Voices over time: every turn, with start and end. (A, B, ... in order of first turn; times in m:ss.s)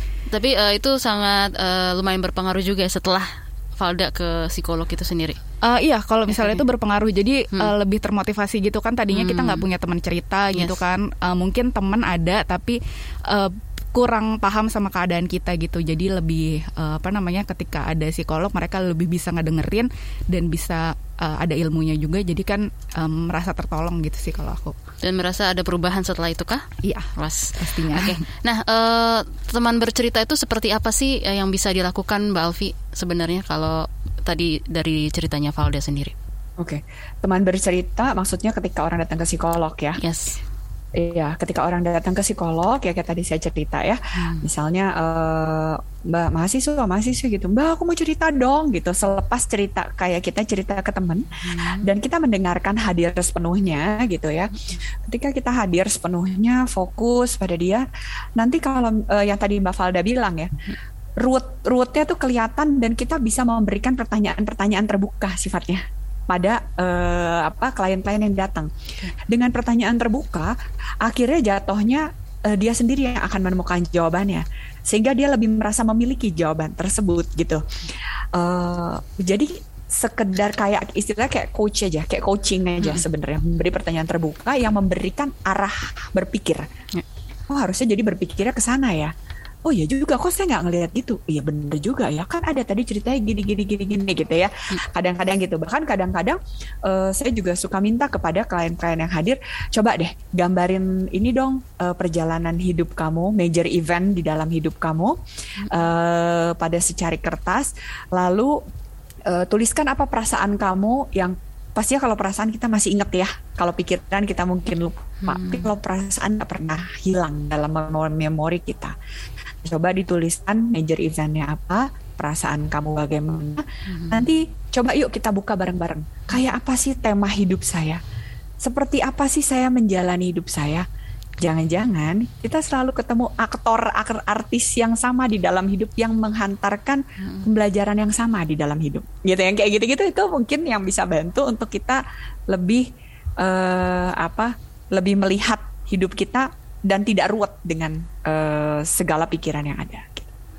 0:00.3-0:05.4 A
0:05.6-0:24.7 B
0:06.3-0:06.6 A
0:09.1-0:09.6 A
0:25.0-0:36.1 A
0:26.8-0:28.2 B
0:36.6-0:40.0 C
0:40.0-0:40.4 A
0:41.0-0:54.5 C
0:44.2-0:44.4 A
0:51.4-0:51.9 A
0:55.0-0:57.8 C
0:58.4-1:00.5 C
1:01.2-1:08.7 C
1:09.3-1:17.6 C
1:18.3-1:26.7 C
1:27.5-1:29.1 C
1:29.6-1:45.2 C
1:45.6-1:45.9 A
1:45.7-1:48.6 C
1:49.3-1:58.9 C
1:55.2-1:55.7 A
1:59.6-2:08.0 C
2:03.9-2:04.3 A
2:08.6-2:10.8 C
2:11.4-2:22.9 C
2:23.4-2:30.3 C